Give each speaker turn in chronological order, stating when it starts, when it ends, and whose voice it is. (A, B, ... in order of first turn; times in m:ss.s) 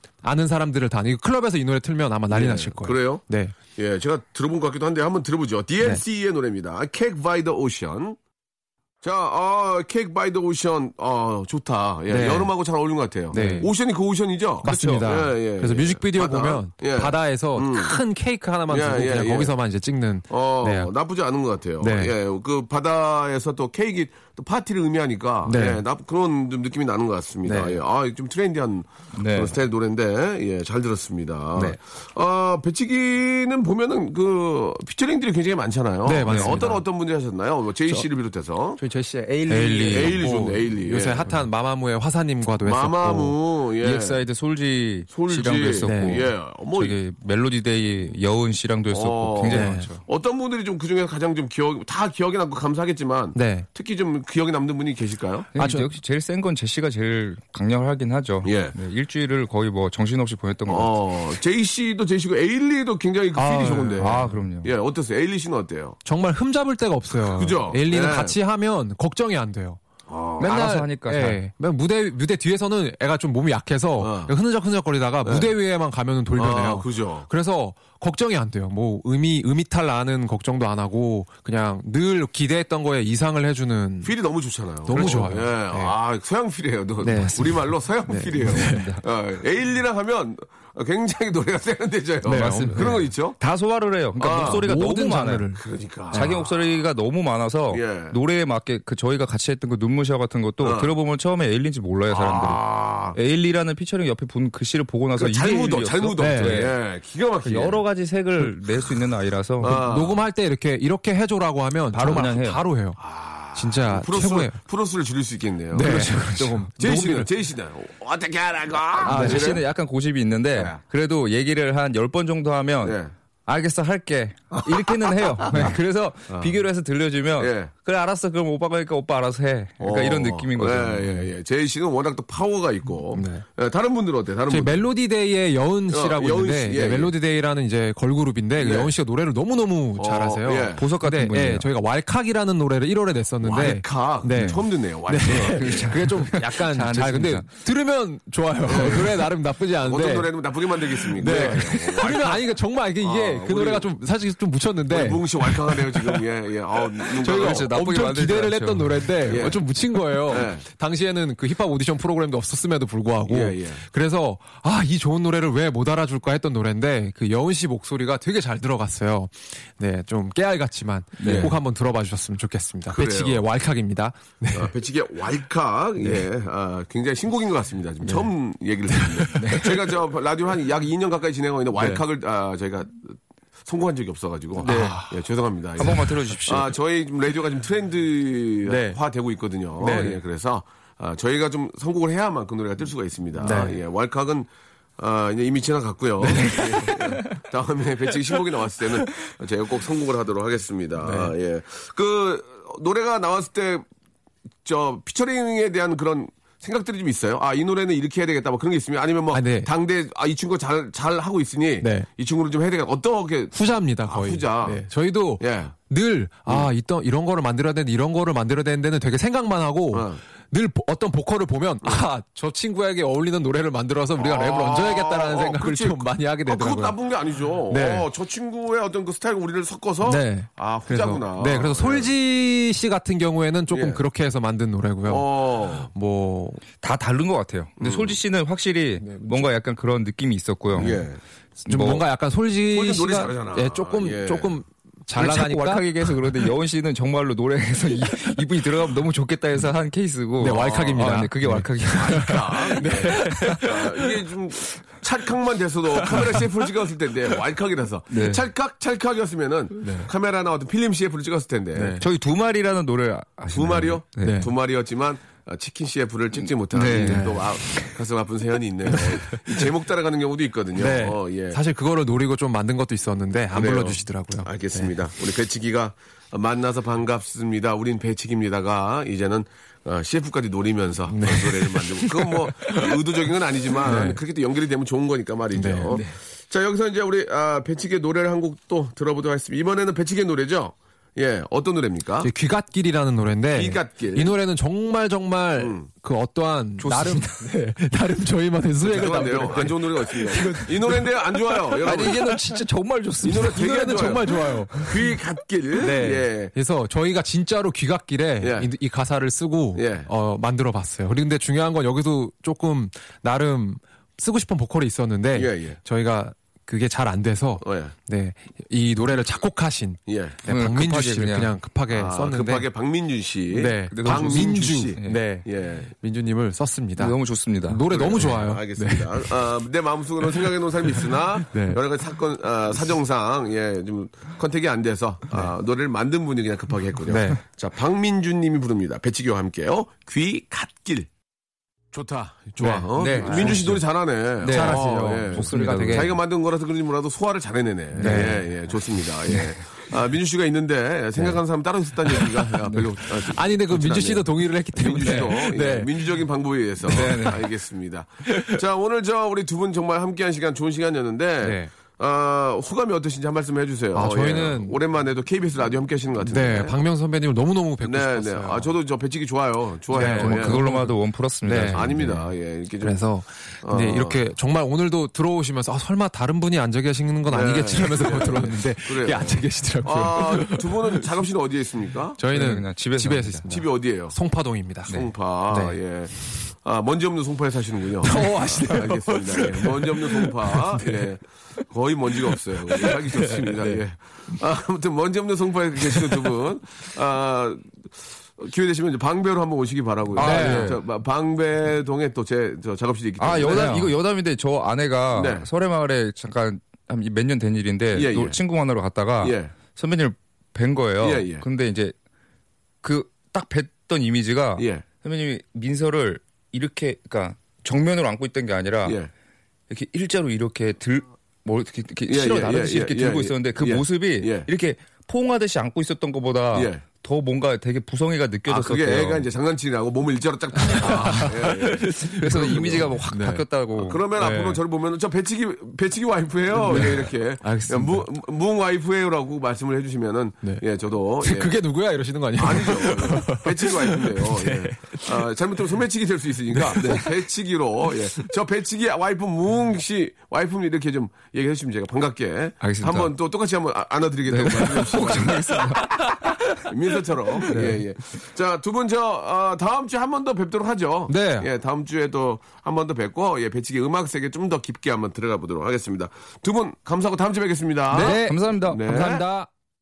0:00.2-0:03.6 A
0:02.3-0:08.2 B
0:09.0-0:18.0 B
0:12.1-0:12.5 A
0:13.3-0:13.7 A
0:14.6-0:15.2 C
0:14.6-0:20.9 A
0:18.7-0:19.5 B
0:20.3-0:38.8 B
0:21.8-0:22.1 A
0:25.4-0:25.8 A
0:27.4-0:27.8 A
0:29.2-0:29.6 C
0:36.0-0:36.8 A
0:36.3-0:36.6 C
0:38.8-0:43.4 A
0:39.1-0:40.2 C
0:39.8-0:41.3 B
0:42.6-0:44.2 B
0:43.8-0:50.0 C
0:45.1-0:47.0 B
0:45.8-0:46.2 A
0:48.9-0:55.5 B
0:49.4-0:49.9 A
0:53.4-0:53.6 A
0:55.6-0:55.9 A
0:55.6-1:01.0 C
0:58.4-0:58.7 B
1:00.7-1:06.0 B
1:03.4-1:04.3 A
1:04.0-1:04.7 C
1:06.0-1:09.8 A
1:07.1-1:08.4 B
1:10.1-1:10.6 B
1:10.4-1:24.1 A
1:10.4-1:11.4 C
1:14.0-1:14.4 B
1:15.2-1:15.5 B
1:16.4-1:17.3 B
1:24.0-1:33.4 B
1:24.9-1:25.9 A
1:24.9-1:25.3 C
1:27.0-1:29.0 A
1:28.6-1:29.0 C
1:32.2-1:33.1 A
1:32.2-1:35.6 C
1:34.2-1:34.7 B
1:34.4-1:36.4 A
1:35.6-1:36.8 B
1:36.1-1:46.8 C
1:37.7-1:38.2 B
1:40.6-1:40.9 B
1:42.1-1:43.2 B
1:45.2-1:47.8 B
1:46.2-1:46.6 A
1:47.4-1:49.8 C
1:49.6-1:50.2 B
1:49.7-1:53.0 A
1:51.9-1:52.6 C
1:53.0-1:59.6 B
1:53.5-1:54.6 A
1:55.7-1:57.3 A
1:55.8-1:56.4 C
1:59.0-1:59.5 A
1:59.0-2:11.1 C
2:00.6-2:00.8 B
2:02.8-2:03.1 B
2:04.6-2:04.9 B
2:05.5-2:05.7 B
2:06.3-2:06.6 B
2:07.4-2:07.7 B
2:09.8-2:14.8 B
2:13.1-2:13.4 A
2:14.5-2:30.3 A
2:15.9-2:17.1 B
2:18.6-2:18.9 B
2:20.0-2:20.9 B
2:20.8-2:21.6 C
2:23.4-2:25.9 B
2:25.2-2:27.4 C
2:28.6-2:29.3 B
2:29.8-2:33.9 B
2:31.2-2:36.2 A
2:31.3-2:31.6 C
2:34.9-2:37.7 B
2:37.2-2:54.7 A
2:37.2-2:39.1 C
2:39.2-2:39.6 B
2:40.3-2:40.6 B
2:43.3-2:43.8 B
2:51.2-2:51.5 C
2:51.2-2:51.6 B
2:52.9-2:53.4 B
2:54.5-3:23.8 B
2:58.0-2:58.3 A
2:58.9-2:59.6 A
2:59.4-2:59.7 C
3:04.6-3:05.1 A
3:04.6-3:05.0 C
3:05.8-3:06.7 C
3:08.6-3:09.0 A
3:09.8-3:10.2 A
3:13.4-3:13.8 A
3:16.2-3:16.9 A
3:16.4-3:17.3 C
3:21.0-3:21.3 A
3:24.6-3:34.8 B
3:29.3-3:29.7 A
3:31.8-3:32.1 A
3:33.5-3:47.0 A
3:35.4-3:35.7 B
3:39.9-3:40.2 B
3:44.2-3:52.1 B
3:47.7-3:48.1 A
3:50.0-3:56.6 A
3:53.7-3:54.0 B
3:55.1-3:55.9 B
3:56.8-4:01.1 C
3:57.8-3:58.2 B
3:59.0-3:59.5 A
4:00.7-4:01.2 B
4:01.6-4:06.2 A
4:01.7-4:02.1 C
4:02.7-4:04.6 B
4:05.2-4:13.7 C
4:10.4-4:14.0 A
4:12.0-4:22.0 B
4:16.1-4:16.4 A
4:18.1-4:18.4 C
4:19.8-4:20.1 A
4:21.7-4:22.0 A
4:22.0-4:24.4 C
4:23.5-4:31.6 B
4:24.2-4:24.5 A
4:26.7-4:27.8 C
4:26.9-4:27.4 A
4:28.9-4:29.4 A
4:30.7-4:34.9 A
4:33.5-4:52.3 B
4:41.1-4:42.9 A
4:43.6-4:44.2 A
4:45.5-4:46.0 A
4:52.2-5:02.6 A
4:53.5-4:54.3 B
4:55.6-4:55.9 B
4:56.8-4:57.4 C
4:58.8-5:02.2 B
5:01.8-5:03.8 C
5:03.2-5:04.9 A
5:03.2-5:04.3 B
5:04.8-5:06.5 B
5:05.8-5:22.7 A
5:08.4-5:08.7 B
5:09.7-5:10.1 B
5:15.3-5:15.8 B
5:17.6-5:17.9 B
5:20.1-5:20.4 B
5:20.5-5:21.5 C
5:21.9-5:25.9 B
5:23.5-5:25.5 A
5:23.9-5:25.2 C
5:26.0-5:27.1 A
5:27.0-5:27.9 C
5:27.7-5:29.4 A
5:27.9-5:41.1 B
5:31.5-5:31.8 A
5:37.1-5:37.4 A
5:41.9-6:06.8 B
5:42.6-5:43.7 A
5:43.0-5:43.8 C
5:44.4-5:46.2 C
5:44.5-5:46.1 A
5:48.0-5:48.5 A
5:48.0-5:48.3 C
5:49.3-5:49.6 C
5:52.1-5:56.2 A
5:55.0-5:55.4 C
5:56.9-5:57.4 A
5:56.9-5:57.5 C
5:58.3-5:58.6 A
6:01.4-6:01.7 A
6:03.9-6:04.8 A
6:06.2-6:08.7 A
6:07.8-6:10.6 B
6:09.9-6:12.3 A
6:09.9-6:11.9 C
6:11.7-6:13.0 B
6:12.8-6:21.1 A
6:13.6-6:14.2 B
6:17.3-6:22.2 B
6:22.2-6:26.4 A
6:22.3-6:23.4 C
6:23.5-6:24.1 B
6:24.9-6:43.9 B
6:28.0-6:31.1 A
6:32.3-6:33.8 A
6:40.2-6:40.8 A
6:40.2-6:40.8 C
6:43.2-6:51.9 C
6:45.1-6:45.5 B
6:47.9-6:48.4 B
6:49.2-6:49.6 B
6:51.0-6:51.4 B
6:52.8-6:59.0 C
6:54.6-6:54.8 B
6:58.8-6:59.1 B
6:59.7-7:09.3 C
7:02.1-7:04.5 B
7:06.5-7:06.8 B
7:08.5-7:12.9 B
7:10.6-7:13.4 A
7:11.9-7:14.6 C
7:13.8-7:21.6 B
7:16.5-7:18.1 A
7:21.2-7:25.3 A
7:22.4-7:49.2 B
7:26.5-7:27.2 A
7:32.6-7:33.1 C
7:34.3-7:36.4 C
7:34.5-7:35.9 A
7:37.4-7:37.8 A
7:41.1-7:41.5 A
7:47.9-7:49.5 A
7:47.9-7:48.8 C